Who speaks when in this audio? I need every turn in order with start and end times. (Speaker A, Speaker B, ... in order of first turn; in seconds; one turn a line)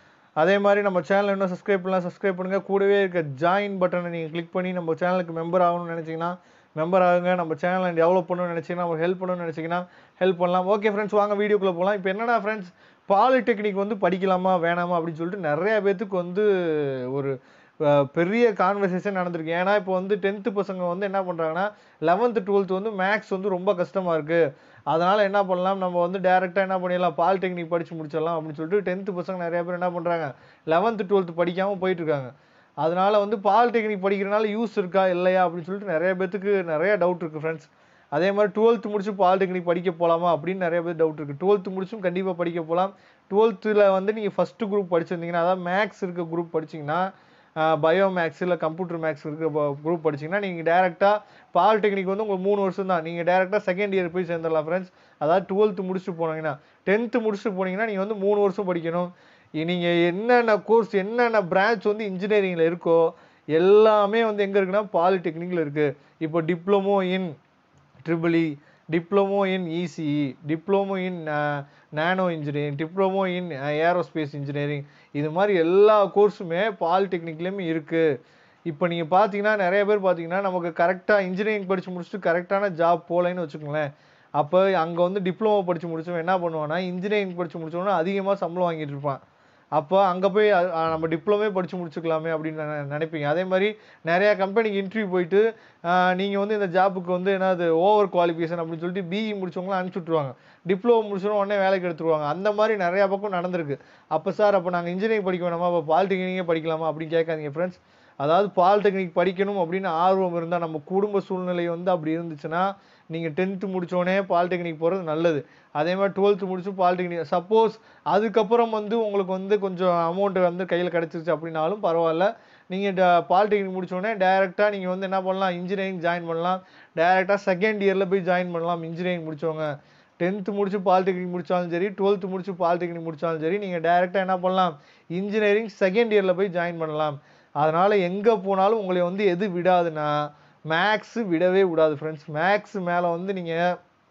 Speaker A: 0.4-67.3
Speaker A: 68.0-78.1
Speaker A: 78.7-89.2
Speaker A: 89.7-143.8